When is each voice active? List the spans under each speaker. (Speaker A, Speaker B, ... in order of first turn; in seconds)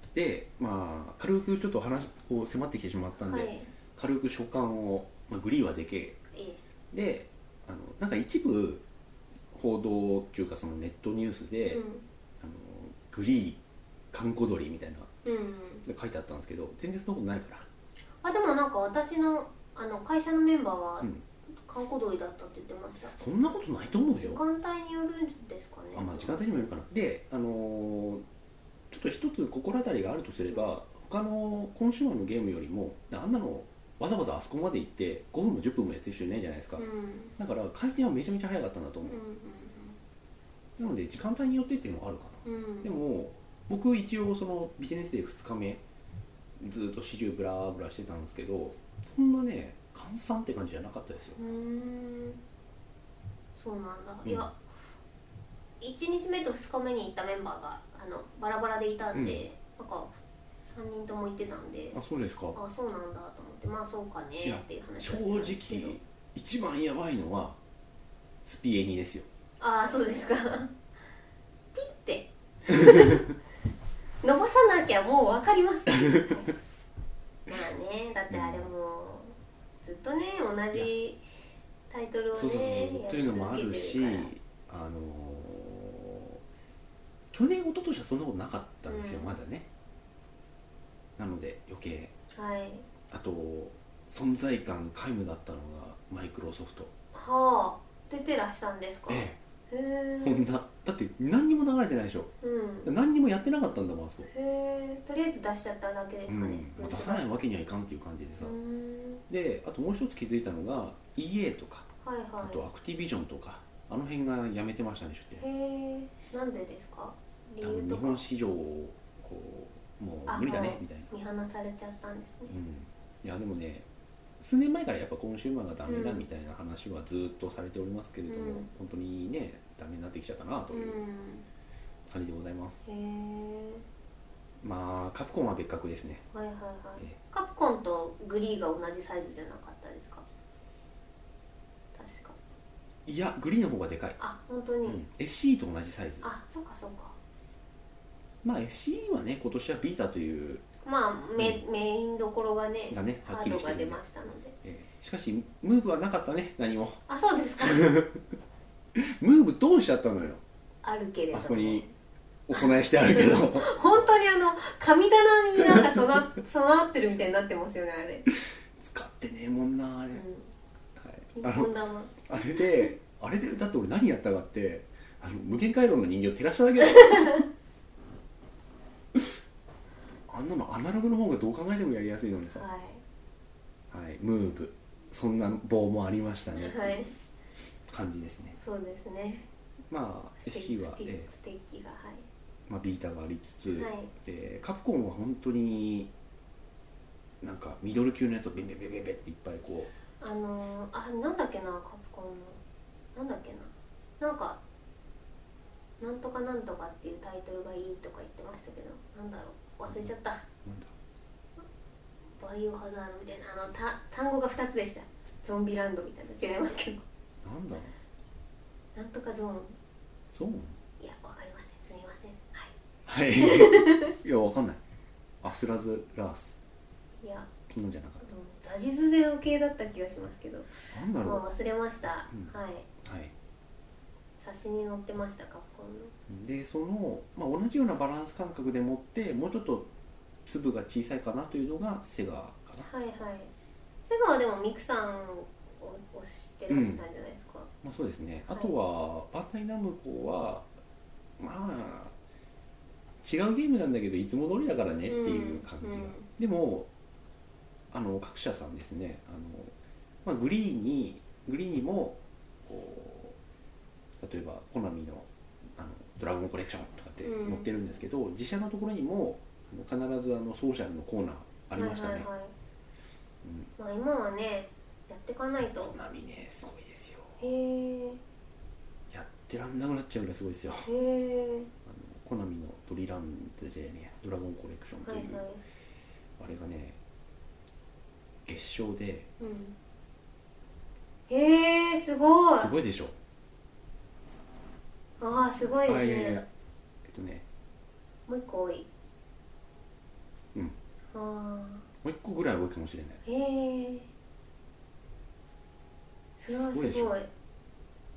Speaker A: 0.1-6.2, 6.9-8.8, 9.5-11.8, 12.4-13.6, 14.1-15.1, 15.8-17.7, 23.1-24.4, 25.9-28.2, 28.9-36.8, 37.4-39.2, 40.8-45.8, 46.6-51.4, 59.1-59.5, 61.9-62.6, 64.4-67.6, 68.5-69.3, 78.3-78.7, 82.3-86.4, 87.3-89.7, 91.2-92.1, 93.1-96.9, 99.1-99.4, 100.2-102.3, 102.8-104.3, 106.3-108.5, 109.3-111.9, 112.4-115.5, 117.6-121.1, 122.5-123.9, 124.4-131.0, 132.1-132.8, 134.6-136.2, 143.1-144.2, 144.9-146.2, 148.4-150.6, 152.9-154.0, 154.6-157.0, 157.6-158.2, 158.9-160.4, 161.3-161.9, 162.5-163.8, 165.7-166.2, 168.8-170.2, 171.0-171.7, 172.2-177.5, 180.3-182.7, 183.9-187.0, 187.9-188.6, 189.9-191.3, 192.7-196.1, 197.4-199.9, 210.7-210.9, 217.4-217.9, 220.3-220.8, 223.1-224.8, 225.4-226.6, 227.7-228.2, 230.9-231.4, 232.3-233.3, 236.3-239.9, 240.5-242.9, 246.7-247.0, 247.8-250.7, 251.4-252.2, 253.2-256.9, 257.9-263.4, 264.2-272.3, 273.4-273.7, 275.8-277.4, 279.1-280.9, 281.9-285.4, 286.4-287.0, 288.5-289.3, 292.5-293.1, 295.9-296.5, 297.1-297.4, 302.0-303.2, 306.5-307.2
Speaker B: 3.2-3.7, 6.3-6.6, 11.7-12.0, 15.2-15.8, 18.2-21.1, 21.6-23.2, 24.2-26.4, 36.8-37.3, 39.0-40.0, 42.5-42.9, 51.4-52.4, 53.5-54.6, 55.8-62.0, 62.5-66.0, 69.6-70.7, 71.8-73.2, 74.2-76.5, 77.5-81.2, 81.9-84.3, 88.9-89.4, 92.3-92.9, 97.1-100.5, 102.4-102.9, 104.3-107.3, 108.4-109.2, 112.0-112.6, 115.4-118.2, 120.3-122.5, 125.9-126.3, 128.3-128.7, 130.7-131.5, 132.8-133.8, 136.3-140.2, 141.9-142.4, 144.2-145.0, 146.2-147.2, 150.8-154.6, 157.1-158.0, 160.8-161.9, 162.5-168.3, 170.1-170.5, 171.3-172.9, 176.9-177.4, 182.6-183.0, 186.6-187.1, 188.6-189.5, 190.4-192.3, 193.7-194.1, 200.2-202.6, 203.2-204.6, 206.0-210.4, 212.4-217.0, 219.0-219.8, 221.0-222.7, 223.4-224.2, 227.2-227.5, 228.2-232.9, 234.4-236.1, 242.8-243.5, 244.1-247.7, 255.1-256.3, 267.2-267.7, 271.8-272.5, 273.8-275.9, 277.4-278.2, 280.9-281.7, 285.0-285.6, 289.4-289.8, 291.3-292.7, 295.2-296.4, 298.3-298.9, 301.1-301.9, 303.2-304.1, 306.4-307.3